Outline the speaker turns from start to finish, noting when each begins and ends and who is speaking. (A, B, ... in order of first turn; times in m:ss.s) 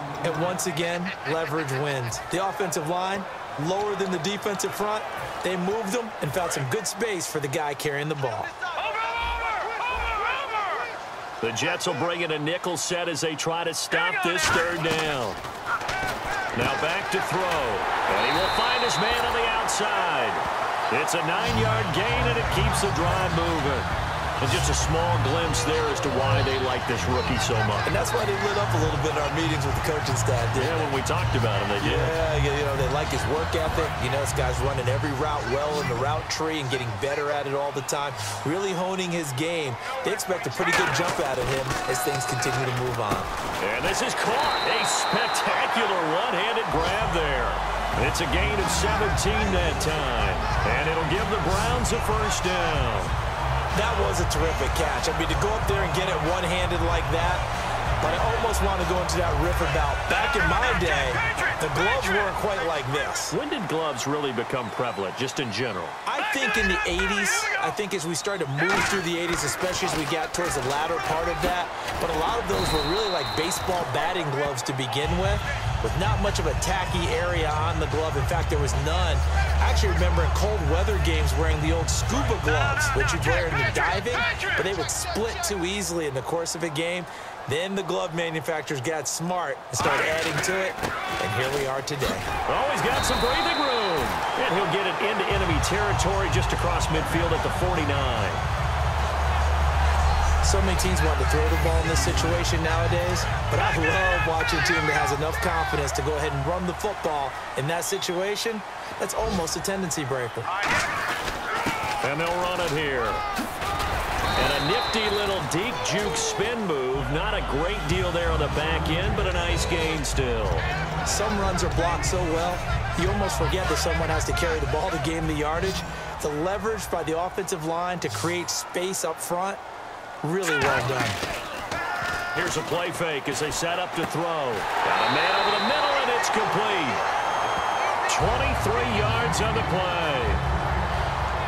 0:00.2-0:08.5 A
0:11.4-0:15.4 B
0:16.5-0:27.9 B
0:27.8-0:30.8 A
0:30.5-0:32.2 B
0:31.8-0:43.3 A
0:43.6-0:53.1 B
0:53.7-0:57.4 A
0:58.0-1:03.3 A
1:03.3-1:06.0 B
1:06.0-1:32.3 A
1:32.5-1:38.4 B
1:40.4-1:50.5 A
1:52.0-1:53.2 B
1:54.4-2:00.7 B
2:01.0-2:09.6 A
2:10.2-2:11.2 A
2:12.3-2:17.0 B
2:18.0-2:20.4 B